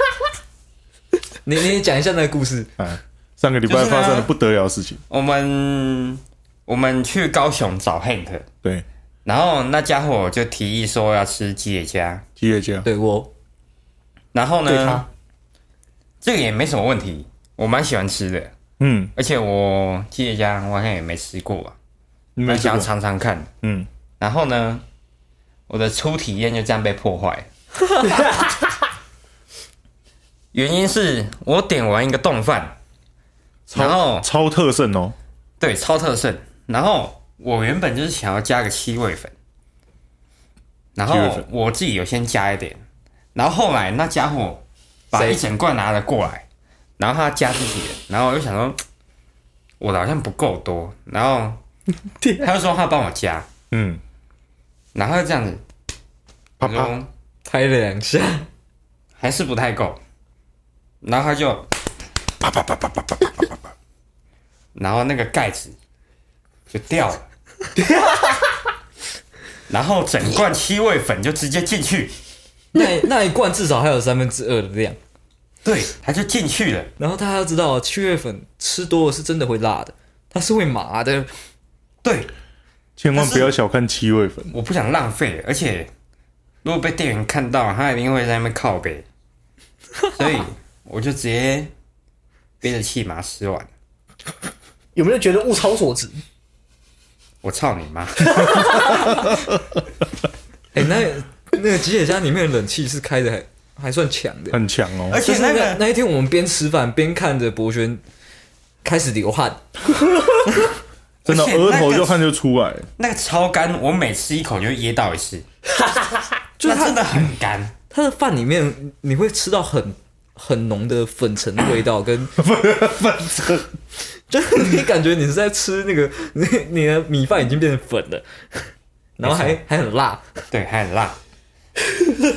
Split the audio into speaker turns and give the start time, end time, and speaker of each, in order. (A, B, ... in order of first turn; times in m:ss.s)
0:01.4-0:02.7 A
0:02.8-0:05.0 B
0:03.6-0:04.3 C
0:05.1-0:08.5 C
0:09.2-0:12.2 C
0:12.4-0:12.9 B
0:12.8-0:13.3 A
0:14.3-0:15.0 C
0:14.6-0:15.0 D
0:16.2-0:18.5 C
0:18.8-0:19.1 B
0:19.2-0:21.8 C
0:22.4-0:22.9 B
0:22.4-0:23.5 C
0:23.6-0:23.9 B
0:24.2-0:24.8 C
0:25.7-0:27.5 C
0:28.0-0:28.6 D
0:30.5-0:32.7 C
0:33.7-0:35.1 B
0:33.7-0:34.3 C
0:35.6-0:39.3 C
0:41.0-0:42.8 C
0:41.1-0:41.4 B
0:43.3-0:46.4 C
0:45.1-0:45.4 A
0:47.0-0:48.8 C
0:49.8-0:51.6 C
0:52.2-0:52.5 D
0:52.4-0:53.5 C
0:53.7-0:54.0 B
0:54.9-0:55.6 C
0:56.6-0:56.9 B
0:56.6-0:57.1 C
0:57.4-0:58.5 A
0:59.2-1:00.0 C
1:01.0-1:01.7 C
1:02.4-1:03.5 B
1:04.7-1:05.7 C
1:06.7-1:07.2 C
1:07.8-1:08.5 D
1:09.7-1:12.1 C
1:12.7-1:15.0 A
1:15.6-1:16.9 C
1:17.0-1:21.3 A
1:22.0-1:22.3 C
1:23.0-1:24.5 B
1:23.1-1:23.5 C
1:24.5-1:25.9 C
1:26.6-1:29.0 C
1:30.1-1:31.7 C
1:32.6-1:33.7 C
1:34.9-1:36.2 D
1:37.4-1:38.7 C
1:40.7-1:44.6 A
1:44.5-1:45.2 B
1:45.1-1:45.8 C
1:45.2-1:48.0 A
1:48.8-1:49.6 A
1:51.2-1:52.2 C
1:51.2-1:52.8 B
1:53.0-1:55.4 C
1:55.8-1:56.2 D
1:56.6-1:57.0 A
1:56.6-1:57.7 C
1:57.9-2:02.3 A
2:02.4-2:03.7 B
2:04.3-2:10.2 A
2:09.3-2:09.5 B
2:10.5-2:11.2 C